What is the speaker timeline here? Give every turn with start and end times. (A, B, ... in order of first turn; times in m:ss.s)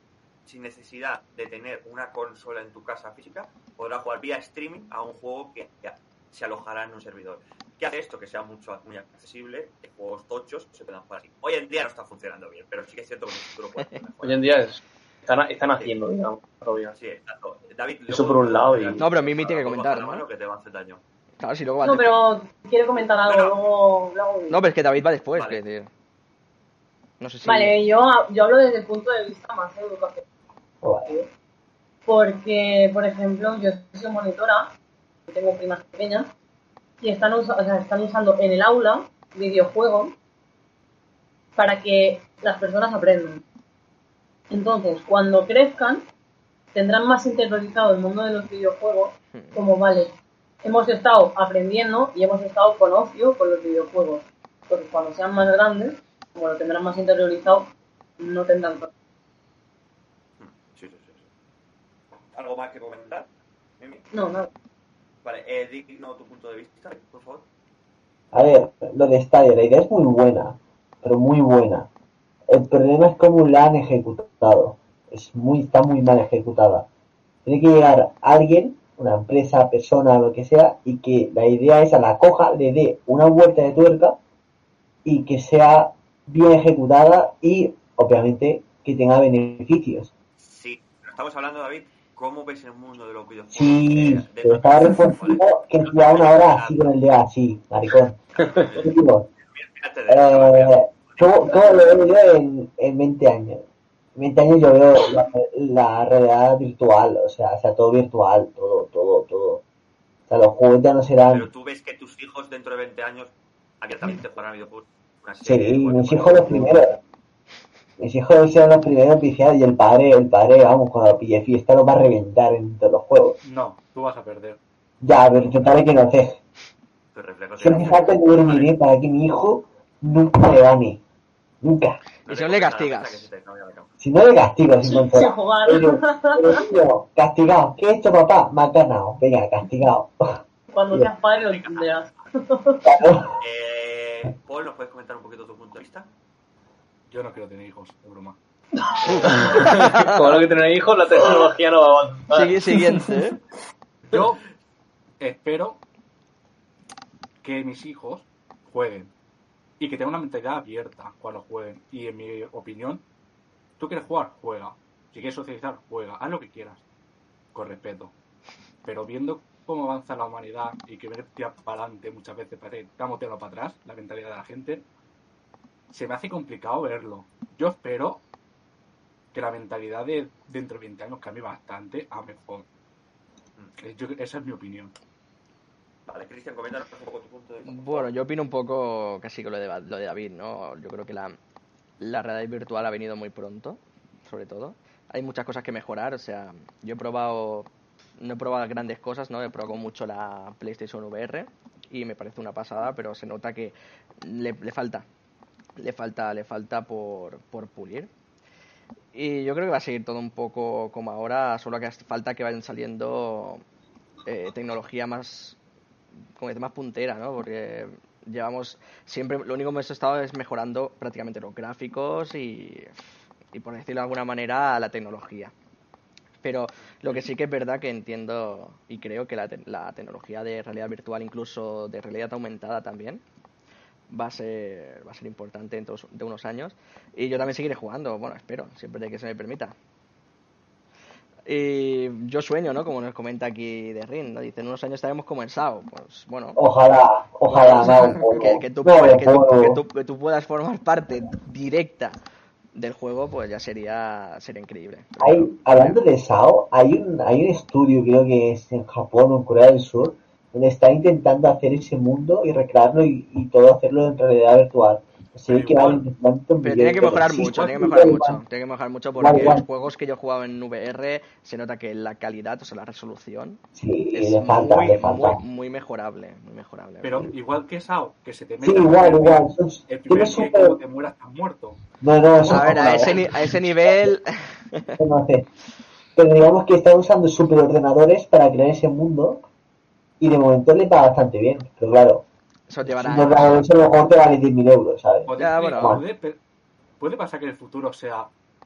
0:00.5-0:14.5 A
0:14.2-0:17.0 B
0:17.0-0:21.0 A
0:18.1-0:19.1 B
0:19.0-0:20.2 C
0:21.4-0:22.2 C
0:21.8-0:24.6 D
0:23.2-0:23.6 A
0:24.5-0:25.9 C
0:27.2-0:27.8 C
0:27.4-0:30.2 D
0:30.8-0:31.1 E
0:31.0-0:31.3 D
0:32.1-0:34.7 D
0:35.3-0:36.3 D
0:37.0-0:40.2 D
0:41.6-0:43.4 D
0:44.5-0:46.0 D
0:46.7-0:58.9 D
0:49.3-0:49.6 C
1:00.4-1:01.3 A
1:02.3-1:03.3 A
1:03.8-1:04.1 A
1:04.1-1:04.5 D
1:05.2-1:07.5 A
1:08.3-1:11.9 E
1:12.5-1:16.9 E
1:17.5-1:24.2 E
1:25.0-1:30.1 E
1:30.4-1:36.9 A
1:33.5-1:38.2 E
1:38.3-1:41.9 A
1:38.8-1:39.3 E
1:40.1-1:43.6 E
1:44.2-1:49.6 E
1:50.3-1:51.5 E
1:51.3-1:57.0 A
1:55.4-1:57.0 E
1:58.0-2:03.4 E
2:03.4-2:04.6 F
2:05.0-2:06.4 E
2:07.1-2:08.7 A
2:07.6-2:11.0 E
2:11.6-2:12.0 E
2:12.2-2:13.3 C
2:12.2-2:13.9 A
2:14.0-2:20.4 E
2:14.7-2:16.8 D
2:20.7-2:23.0 D
2:21.5-2:22.1 A
2:22.9-2:23.4 E
2:23.4-2:26.1 A
2:27.1-2:28.4 F
2:28.9-2:33.0 B
2:29.1-2:30.4 C
2:32.3-2:33.4 C
2:34.1-2:34.4 F
2:35.2-2:35.8 F
2:37.4-2:39.1 F
2:39.8-2:43.0 F
2:43.8-2:46.8 F
2:47.5-2:48.1 F
2:48.8-2:54.8 F
2:55.9-2:58.2 F
2:59.3-3:02.7 F
3:03.8-3:04.9 F
3:06.1-3:08.1 A
3:07.7-3:11.4 C
3:12.0-3:25.1 C
3:25.8-3:28.1 C
3:29.1-3:33.6 C
3:34.3-3:35.6 C
3:36.4-3:43.0 C
3:43.5-3:45.5 C
3:46.4-3:53.2 C
3:46.9-3:47.2 A
3:54.1-3:59.8 C
4:01.5-4:06.6 C
4:06.6-4:09.8 E
4:07.5-4:12.2 C
4:12.8-4:16.0 C
4:15.2-4:28.4 E
4:25.5-4:26.0 F
4:26.6-4:33.6 C
4:29.2-4:29.6 E
4:33.8-4:35.4 E
4:34.1-4:37.1 C
4:37.0-4:41.8 F
4:38.6-4:40.8 E
4:42.0-4:43.4 E
4:42.5-4:45.0 C
4:42.5-4:43.0 F
4:45.0-4:45.5 E
4:46.2-4:49.4 E
4:50.2-4:52.3 E
4:52.7-4:53.6 C
4:52.9-4:56.0 E
4:55.3-4:56.4 F
4:55.4-4:56.0 C
4:57.0-4:58.3 F